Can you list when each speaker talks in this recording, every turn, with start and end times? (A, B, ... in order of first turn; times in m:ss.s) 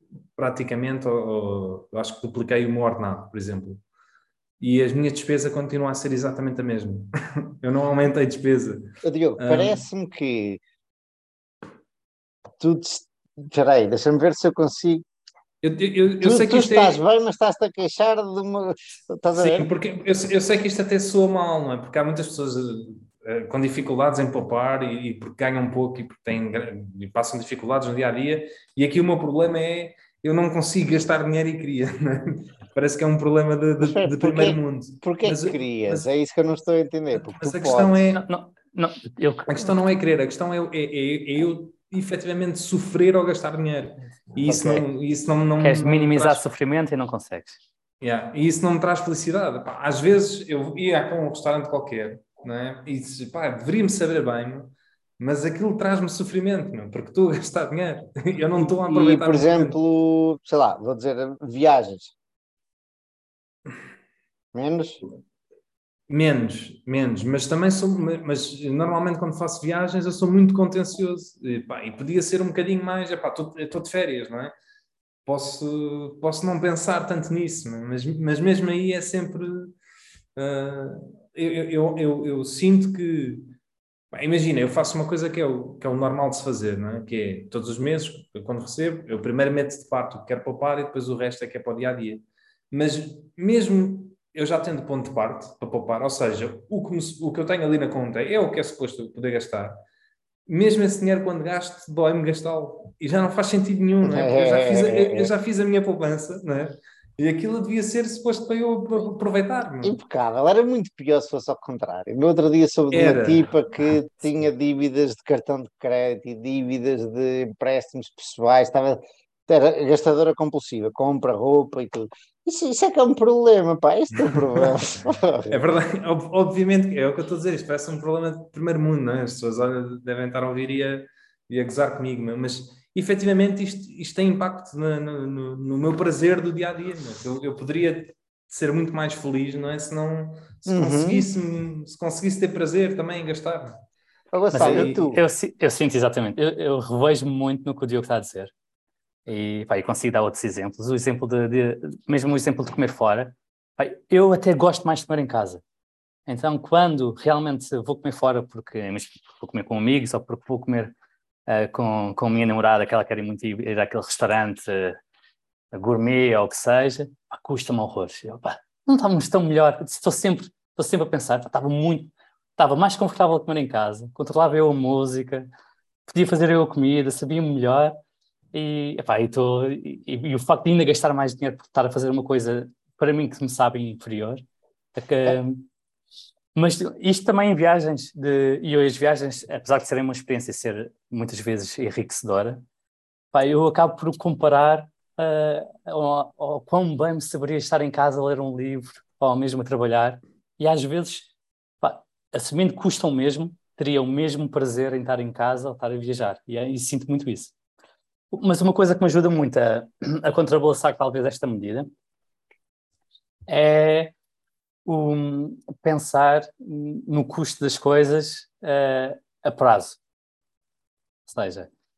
0:00.4-0:03.8 A
0:04.6-0:09.8 A
0:09.0-0:10.6 B
0:12.6-0:15.0 B
0:15.6-0:17.0 A
0:16.2-0:19.7 B
0:19.4-0:36.0 A
0:33.8-0:38.1 B
0:37.2-0:38.2 A
0:38.1-0:39.7 C
0:39.5-0:46.4 A
0:44.4-0:44.8 B
0:45.6-0:47.6 C
0:48.0-0:59.8 A
0:58.9-1:02.1 B
1:04.6-1:05.0 B
1:06.1-1:14.6 A
1:15.3-1:19.8 A
1:20.4-1:23.5 A
1:24.1-1:39.8 A
1:40.5-1:50.0 A
1:44.0-1:45.3 B
1:49.8-2:05.6 B
1:52.9-1:54.0 A
2:04.2-2:04.7 A
2:05.5-2:23.8 A
2:20.7-2:21.3 B
2:24.3-2:25.2 B
2:24.5-2:28.5 C
2:24.5-2:25.1 A
2:29.3-2:35.6 C
2:36.3-2:40.9 C
2:41.5-2:45.0 C
2:45.7-2:55.5 C
2:56.1-2:58.0 C
2:58.5-3:04.4 C
3:05.0-3:05.7 C
3:06.6-3:12.6 C
3:13.3-3:27.5 C
3:28.3-3:31.9 C
3:33.5-3:34.1 C
3:34.9-3:40.0 C
3:41.3-3:41.7 C